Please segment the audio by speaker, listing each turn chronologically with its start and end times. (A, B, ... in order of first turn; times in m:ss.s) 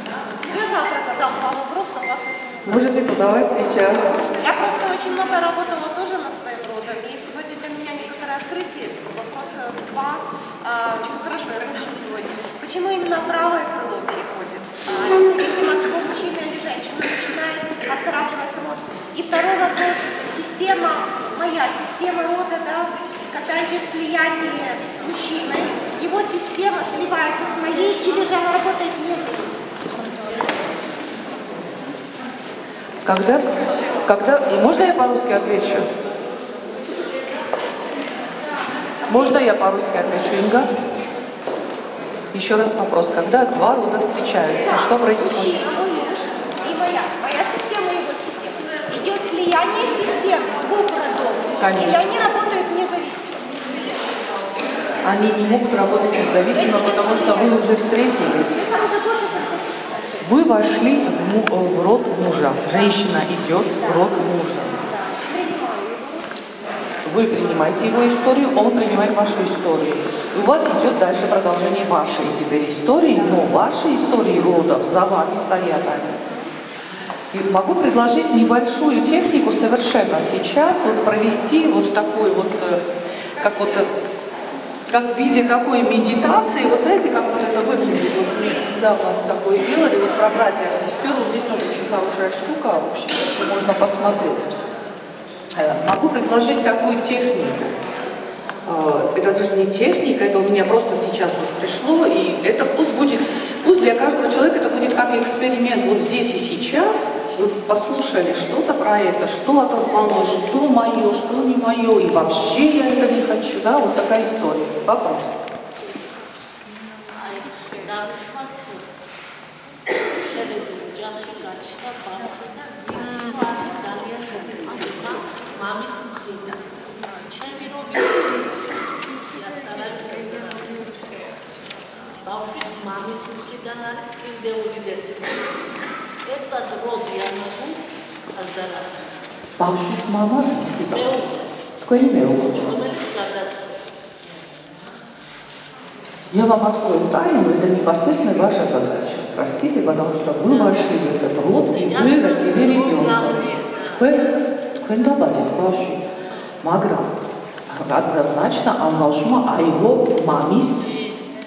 0:00.3-0:03.2 A
0:02.6-0:04.2 B
0:04.2-0:29.7 A
0:33.0-0:35.9 B
0:39.0-0:40.7 B
0:42.3-0:45.6 B
0:44.6-0:53.9 A
0:51.6-0:52.1 B
0:55.0-0:58.6 B
0:56.5-0:57.7 A
0:58.5-1:00.2 A
1:00.2-1:04.8 B
1:03.8-1:06.2 A
1:07.0-1:16.2 B
1:17.3-1:22.8 B
1:23.4-1:23.9 B
1:24.9-1:34.7 B
1:35.5-1:37.8 B
1:38.6-1:55.4 B
1:58.0-1:58.7 C
2:00.6-2:04.8 C
2:06.0-2:06.6 C
2:07.7-2:08.7 C
2:09.4-2:10.9 C
2:12.4-2:15.0 C
2:16.3-2:17.6 C
2:19.6-2:22.9 B
2:23.1-2:23.4 C
2:26.3-2:36.0 B
2:36.6-2:37.1 B
2:37.7-2:41.0 B